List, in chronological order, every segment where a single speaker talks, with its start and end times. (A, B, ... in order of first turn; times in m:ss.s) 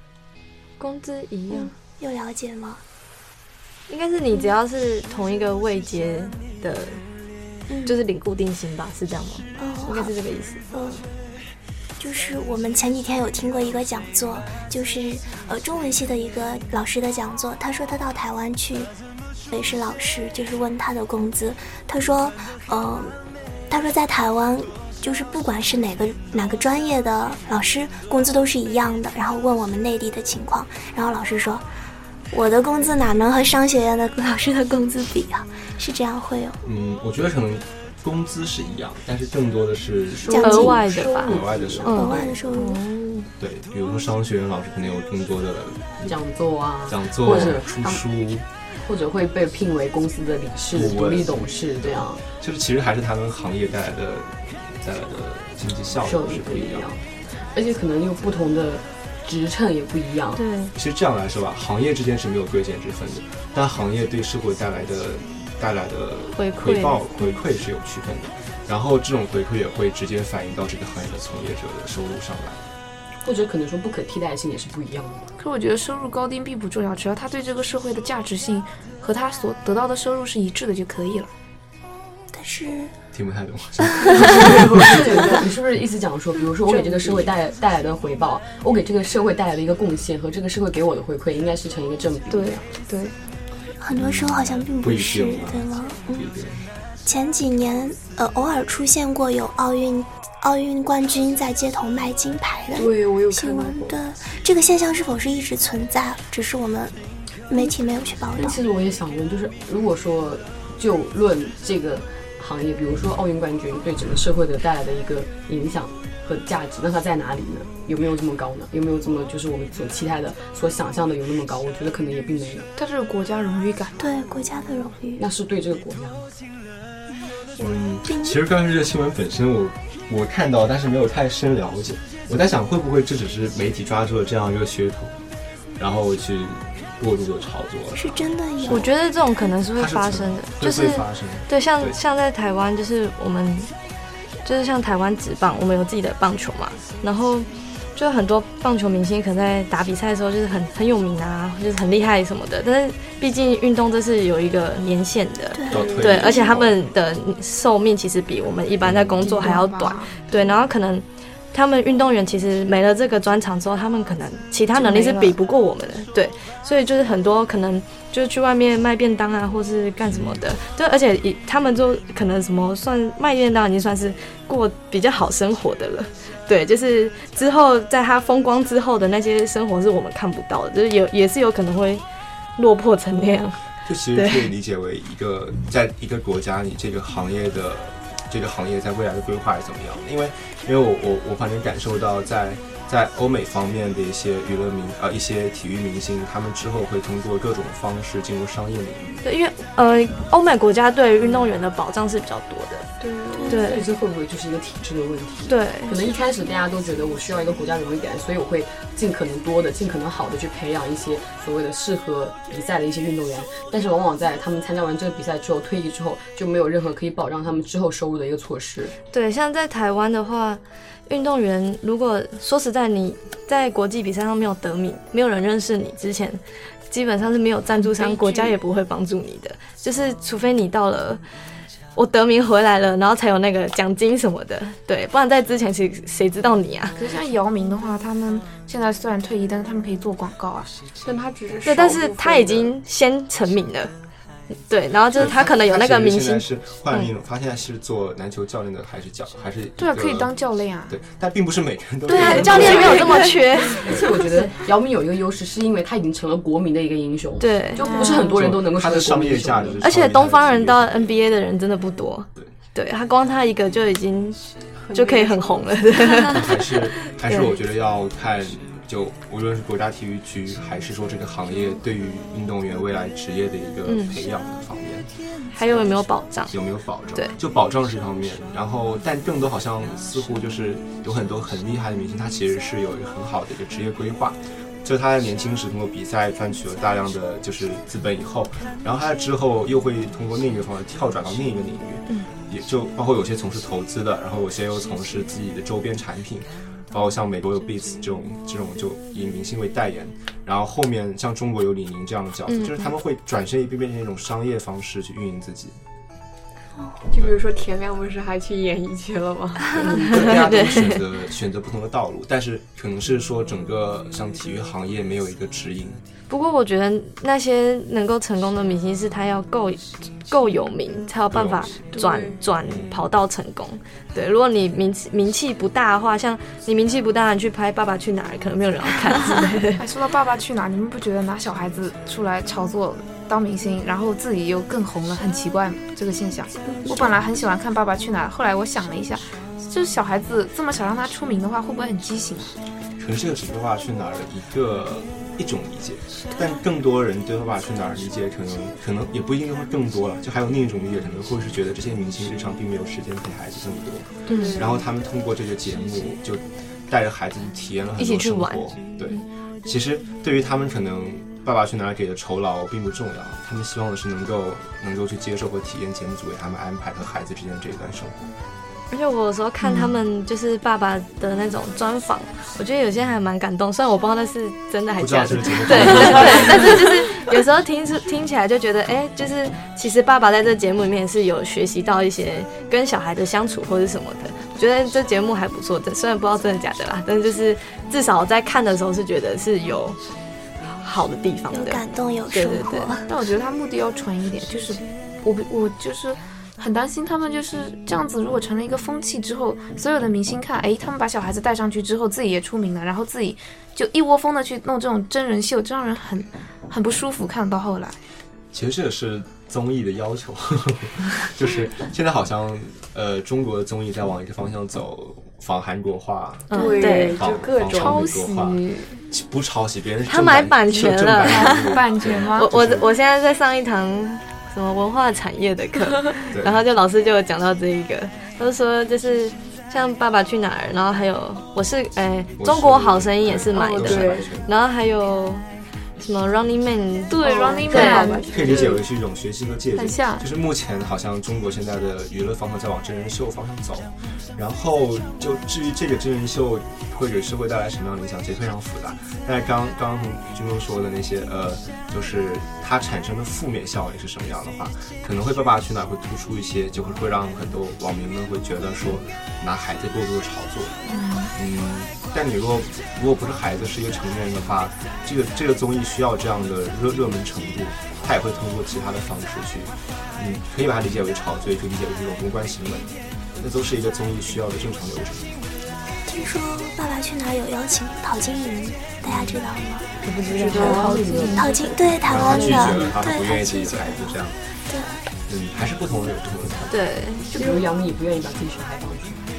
0:00.8-0:01.7 A
0:01.5-0:02.8 B
0:03.9-0:07.0 A
0:07.7-0:08.0 B
0:07.8-0:10.6 A
0:09.6-0:10.1 B
0:10.7-0:11.0 B
0:12.0-0:18.9 B
0:19.5-0:23.2 B
0:23.7-0:31.6 B
0:32.3-0:36.6 B
0:36.6-0:40.6 C
0:40.3-0:41.0 B
0:40.4-0:43.3 A
0:40.4-0:42.0 D
0:41.2-0:42.3 C
0:41.9-0:42.8 B
0:43.4-0:46.2 C
0:46.0-0:48.0 D
0:46.8-0:48.5 C
0:48.7-0:52.2 D
0:50.7-0:56.9 C
0:56.0-1:00.4 D
1:00.4-1:00.7 A
1:00.7-1:12.6 C
1:06.4-1:07.4 A
1:13.2-1:15.3 D
1:15.4-1:21.3 E
1:22.3-1:22.9 B
1:23.1-1:25.0 C
1:24.0-1:24.3 B
1:24.2-1:32.7 D
1:32.3-1:33.1 E
1:33.8-1:36.3 B
1:33.9-1:36.6 C
1:37.0-1:47.0 B
1:42.7-1:44.0 F
1:47.5-1:48.6 B
1:48.3-2:02.7 D
2:02.8-2:04.0 E
2:04.0-2:05.2 B
2:05.2-2:06.3 D
2:07.6-2:15.2 C
2:08.1-2:08.3 B
2:15.8-2:18.9 C
2:18.0-2:18.9 B
2:18.7-2:23.7 A
2:19.8-2:22.0 C
2:24.4-3:02.0 A
2:35.5-2:36.6 B
2:35.7-2:36.8 C
2:38.8-2:39.4 C
2:39.2-2:40.2 E
2:50.1-2:50.4 C
3:02.6-3:03.6 A
3:03.8-3:19.2 C
3:04.2-3:04.4 A
3:19.2-3:22.9 A
3:23.0-3:23.7 F
3:23.3-3:23.6 B
3:23.5-3:23.8 A
3:23.5-3:39.0 D
3:25.5-3:26.0 A
3:39.1-3:51.2 A
3:47.8-3:48.6 E
3:51.9-3:57.0 A
3:57.0-4:00.7 E
4:01.0-4:02.7 F
4:01.6-4:03.9 A
4:04.7-4:07.1 A
4:05.1-4:10.3 C
4:09.8-4:10.9 E
4:10.9-4:13.1 C
4:12.1-4:14.3 A
4:12.2-4:19.8 D
4:12.5-4:13.3 E
4:17.4-4:17.9 A
4:17.8-4:18.3 E
4:18.3-4:21.1 C
4:19.8-4:27.5 A
4:24.8-4:26.5 F
4:26.2-4:35.1 C
4:35.5-4:36.5 A
4:35.6-4:35.9 C
4:36.5-5:05.8 C
5:02.5-5:02.9 A
5:07.1-5:10.1 F
5:09.8-5:10.4 D
5:09.9-5:11.0 A
5:10.0-5:16.0 C
5:16.3-5:29.8 A
5:21.3-5:21.8 C
5:21.9-5:22.4 F
5:22.6-5:23.0 C
5:29.8-5:42.5 E
5:36.8-5:37.1 B
5:43.0-6:08.2 C
5:54.3-5:54.6 A
5:54.3-5:54.8 F
5:58.0-5:59.2 A
6:08.9-6:30.0 A
6:15.0-6:17.0 C
6:30.7-6:33.0 A
6:31.5-6:33.1 B
6:33.1-6:48.0 E
6:48.5-7:02.9 C
6:56.5-6:57.2 A
6:56.5-6:58.2 F
6:56.5-6:57.1 E
6:57.7-6:59.0 E
7:00.1-7:15.4 A
7:01.3-7:02.5 E
7:06.3-7:06.6 C
7:12.4-7:14.5 C
7:13.5-7:14.3 F
7:16.0-7:18.2 A
7:17.1-7:18.7 E
7:17.2-7:18.8 F
7:17.8-7:55.3 C
7:19.8-7:20.2 E
7:40.9-7:41.3 E
7:56.0-7:59.9 B
8:00.3-8:01.7 D
8:00.3-8:01.0 A
8:00.4-8:01.7 F
8:00.5-8:01.2 E
8:01.3-8:04.1 B
8:02.0-8:04.4 C
8:02.2-8:02.8 D
8:04.6-8:05.0 B
8:05.3-8:06.8 C
8:06.7-8:07.3 A
8:07.3-8:09.2 D
8:07.4-8:07.7 F